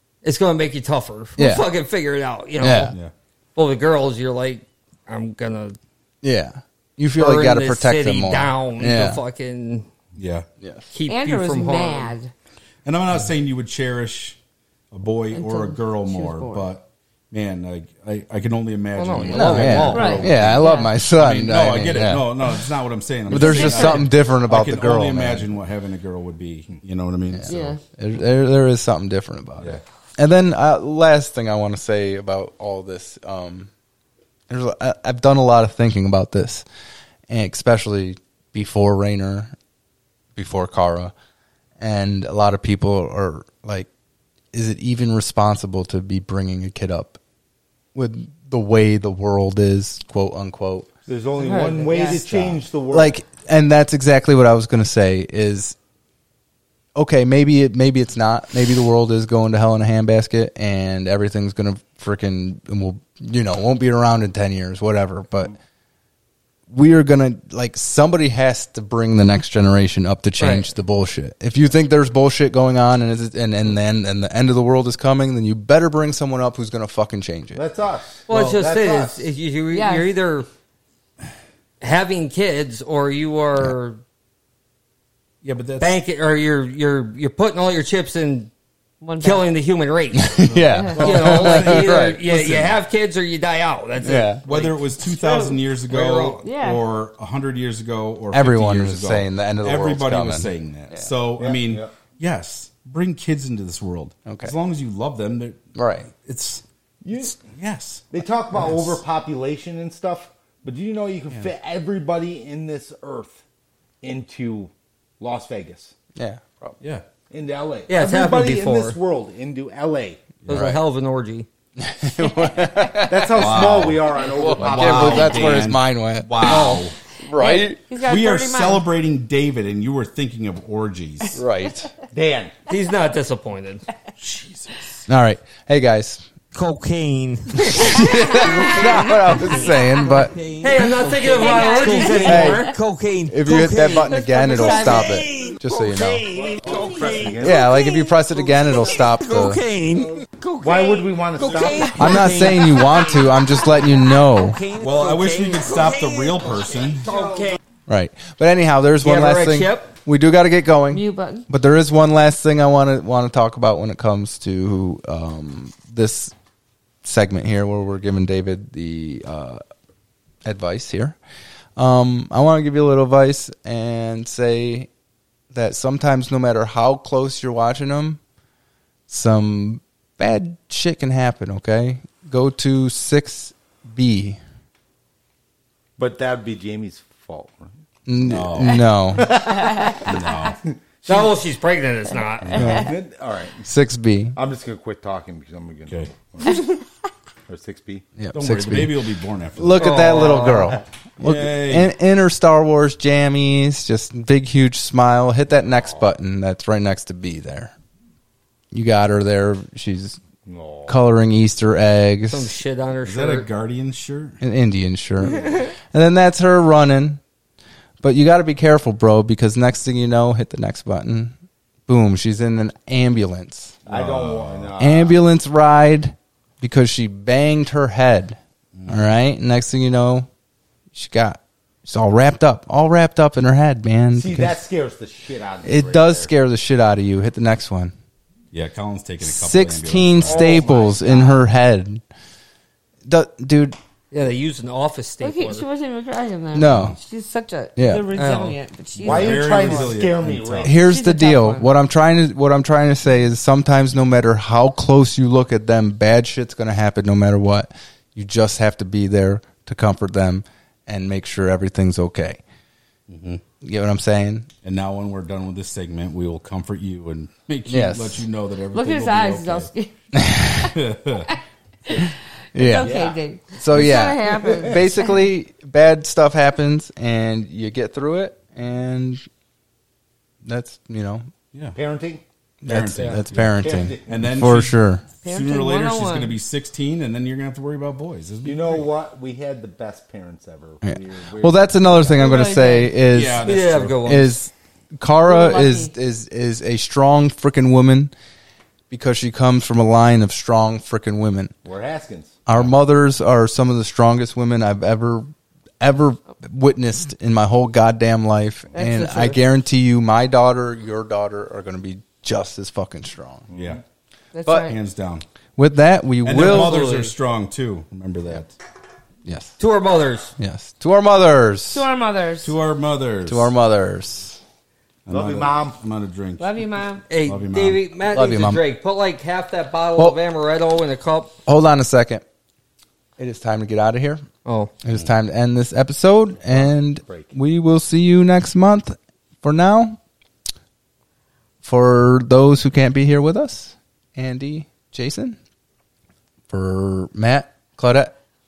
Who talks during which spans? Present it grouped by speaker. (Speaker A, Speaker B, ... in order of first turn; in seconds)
Speaker A: 0.2-2.9, 3.6-5.8, 7.2-9.9, 10.9-12.1, 19.0-20.4, 70.4-70.7, 78.3-80.5, 81.8-84.0, 85.8-88.5, 89.2-90.3, 91.0-96.4, 117.9-119.0, 120.5-121.5, 132.7-133.9, 137.1-139.2, 140.6-143.0, 144.6-145.5, 146.7-147.1, 157.0-157.6, 159.0-159.9, 191.1-192.6, 199.8-200.8, 212.3-213.5, 244.1-245.7, 248.1-248.6, 293.4-294.4, 316.5-317.1, 319.6-320.4, 327.1-331.3, 334.4-334.7
Speaker B: 1.4-1.7, 2.6-3.0, 6.2-9.2, 10.6-10.9, 19.3-22.5, 23.3-25.5, 27.3-33.7, 34.5-36.7, 37.3-39.5, 40.4-41.1, 41.8-43.9, 44.5-47.2, 47.9-50.9, 52.9-55.8, 57.0-65.5, 66.7-77.6, 90.1-92.2, 94.0-94.4, 98.3-101.1, 104.3-104.5, 105.8-106.1, 116.2-116.8, 120.5-120.8, 121.8-127.8, 131.4-131.9, 135.1-136.2, 137.7-140.4, 142.1-142.7, 143.3-146.3, 147.4-149.6, 151.9-154.6, 157.9-166.3, 167.0-169.6, 170.4-171.2, 171.8-174.9, 175.5-178.2, 179.1-184.4, 188.1-189.4, 192.5-192.9, 193.6-194.4, 198.2-199.0, 199.6-207.7, 208.7-210.2, 210.9-212.6, 214.4-217.2, 218.0-221.3, 221.9-223.8, 224.8-230.3, 230.9-234.6, 235.6-237.9, 239.2-242.0, 243.1-243.8, 246.5-247.0, 247.8-248.1, 250.6-262.4, 263.6-264.5, 267.7-268.2, 270.1-270.7, 272.6-273.0, 273.5-279.3, 280.4-281.3, 282.6-285.1, 290.8-298.1, 298.9-301.6, 302.5-305.3, 305.8-313.5, 314.5-314.7, 315.6-317.0, 319.2-319.6, 320.4-321.9, 323.3-324.4, 328.1-328.6, 331.5-332.2, 333.2-334.2, 334.8-340.0, 341.6-345.4, 346.5-348.1
Speaker C: 10.2-10.5, 12.8-14.4, 14.9-27.8, 78.3-78.6, 85.4-86.0, 90.5-92.8, 94.5-106.6, 107.2-109.0, 123.3-127.0, 128.0-131.4, 134.2-135.1, 154.8-157.1, 188.2-189.2, 190.0-190.6, 192.4-192.8, 195.9-196.1, 198.3-200.2, 201.2-201.9, 213.0-214.4, 223.9-224.7, 228.7-229.1, 238.5-240.7, 246.6-247.0, 248.9-250.8, 263.1-263.4, 264.6-269.7, 270.6-271.3, 282.6-288.9, 293.1-294.2, 313.5-313.8, 314.6-315.2, 316.2-318.6, 322.4-323.5, 325.1-327.8
Speaker D: 11.1-12.3, 15.3-16.7, 19.9-20.9, 23.3-24.0, 27.5-27.8, 51.4-52.6, 79.7-80.2, 89.0-89.5, 90.7-91.0, 96.4-96.8, 127.3-128.9, 141.4-142.7, 160.9-161.5, 189.7-190.0, 196.4-196.8, 245.2-250.0, 250.8-251.7, 268.7-269.9, 271.9-275.2, 285.2-286.4, 292.1-293.0, 295.3-295.9, 308.8-309.4, 314.3-314.8, 321.7-322.6, 326.4-327.0
Speaker E: 51.1-53.2, 77.5-79.3, 101.4-101.9, 107.0-107.4, 108.1-113.4, 114.0-115.9, 117.3-120.2, 123.1-125.7, 132.1-132.5, 146.3-147.8, 150.6-152.3, 186.0-187.7, 189.2-191.4, 192.6-193.7, 194.3-196.8, 197.5-198.1, 210.5-211.0, 223.8-225.2, 234.1-236.3, 240.2-241.5, 249.0-250.8, 272.8-275.1, 281.7-282.2, 283.5-284.3, 288.4-292.4, 301.6-302.4, 313.5-313.8, 325.1-325.8, 336.5-337.4
Speaker F: 138.6-139.1, 140.2-148.0, 148.6-153.2, 154.4-156.4